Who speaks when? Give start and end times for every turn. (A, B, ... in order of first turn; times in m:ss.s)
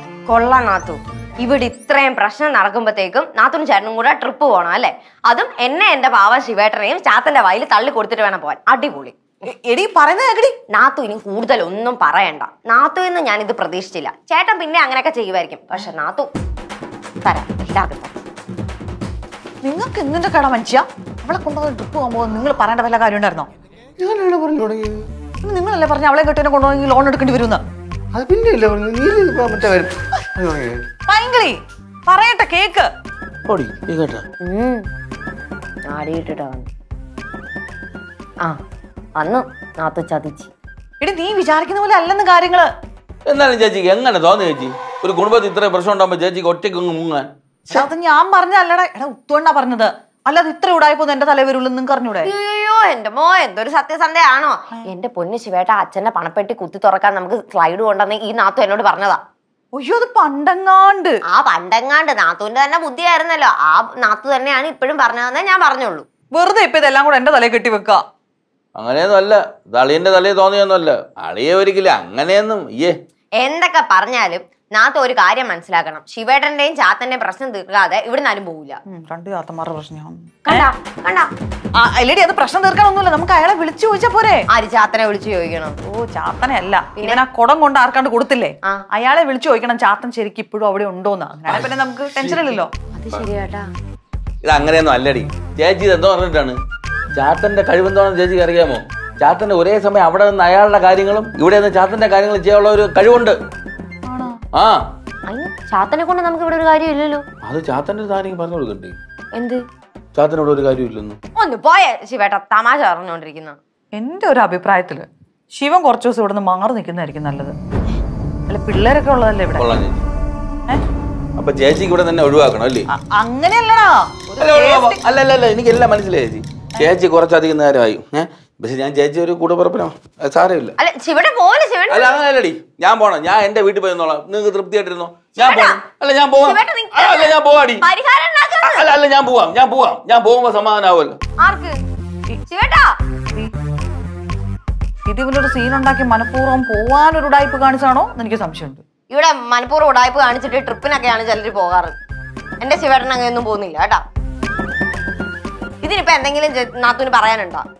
0:00.3-0:09.1 A
0:09.5-0:10.5 B
0:10.7-0:16.3 A
0:17.2-0:18.1 A
0:19.6-0:23.5 B
0:24.0-0:25.0 C
0:25.4-0:27.6 B
0:28.1-0:30.8 C
0:31.1-0:32.9 B
0:33.5-0:34.2 D
0:34.4-0:34.8 A
0:35.9-0:36.7 A
0:39.2-0:40.5 A
0:41.0-0:42.7 B
0:43.2-0:47.8 D
0:47.7-0:52.3 B
0:52.2-0:59.2 A
0:59.7-1:01.1 B
1:01.3-1:06.0 A
1:06.3-1:08.0 B
1:08.8-1:12.9 D
1:13.4-1:18.8 A
1:18.9-1:20.7 B
1:20.4-1:21.3 A
1:21.8-1:24.4 B
1:24.5-1:25.8 A
1:25.8-1:32.7 B
1:32.9-1:33.7 A
1:34.4-1:36.6 D
1:37.1-1:43.4 D
1:44.1-1:44.4 B
1:44.5-1:44.8 D
1:45.3-1:47.2 A
1:47.4-1:49.0 D
1:49.3-1:49.6 A
1:50.1-1:51.2 D
1:51.3-1:53.6 A
1:54.0-1:57.5 B
1:58.5-1:59.6 B
1:59.6-2:00.0 D
2:01.4-2:02.8 D
2:02.9-2:05.0 B
2:04.4-2:10.7 D
2:10.8-2:12.2 A
2:11.9-2:17.8 D
2:15.4-2:15.8 A
2:16.4-2:18.9 A
2:18.6-2:21.2 D
2:21.4-2:21.8 A
2:22.3-2:22.9 A
2:25.1-2:28.8 B
2:29.1-2:32.0 A
2:32.6-2:34.0 A
2:35.8-2:37.6 A